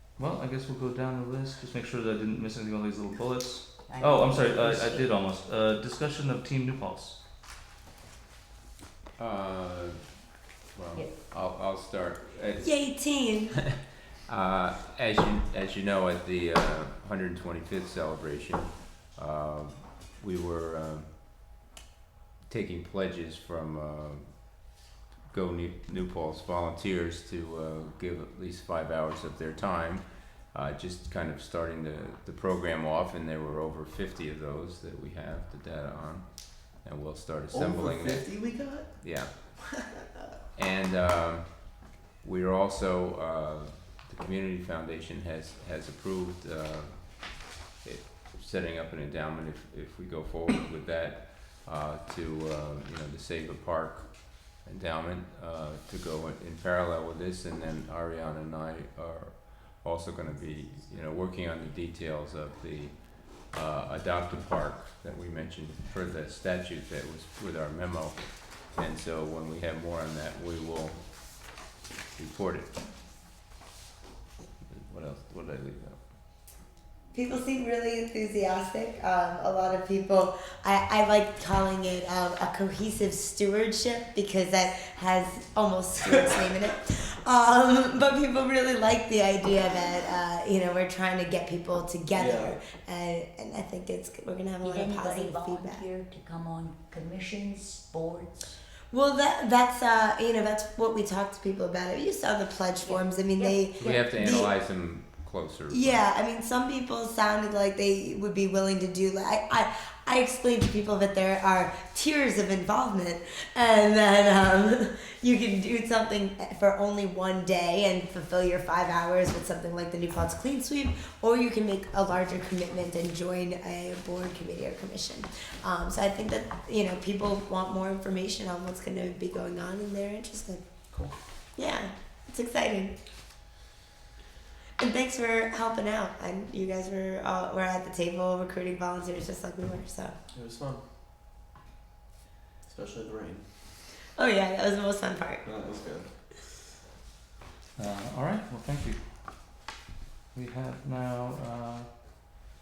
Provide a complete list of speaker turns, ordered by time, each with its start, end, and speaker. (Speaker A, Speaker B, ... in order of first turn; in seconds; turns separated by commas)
Speaker A: 0.2-7.2, Speaker B: 3.9-5.1, Speaker C: 9.2-10.0, Speaker C: 10.7-13.2, Speaker D: 12.6-13.6, Speaker C: 14.3-21.1, Speaker C: 22.5-24.7, Speaker C: 25.3-38.4, Speaker E: 37.5-40.2, Speaker C: 39.0-39.3, Speaker C: 40.6-71.1, Speaker C: 72.2-72.7, Speaker C: 74.7-76.0, Speaker D: 77.1-95.8, Speaker E: 92.1-92.5, Speaker B: 94.6-98.6, Speaker D: 98.9-104.6, Speaker B: 102.8-104.1, Speaker C: 103.8-106.0, Speaker D: 105.7-130.6, Speaker D: 131.6-132.9, Speaker D: 134.8-140.1, Speaker E: 140.3-140.8, Speaker E: 142.6-143.4, Speaker D: 144.2-145.4, Speaker E: 145.4-146.1, Speaker A: 147.8-149.0, Speaker A: 150.3-151.9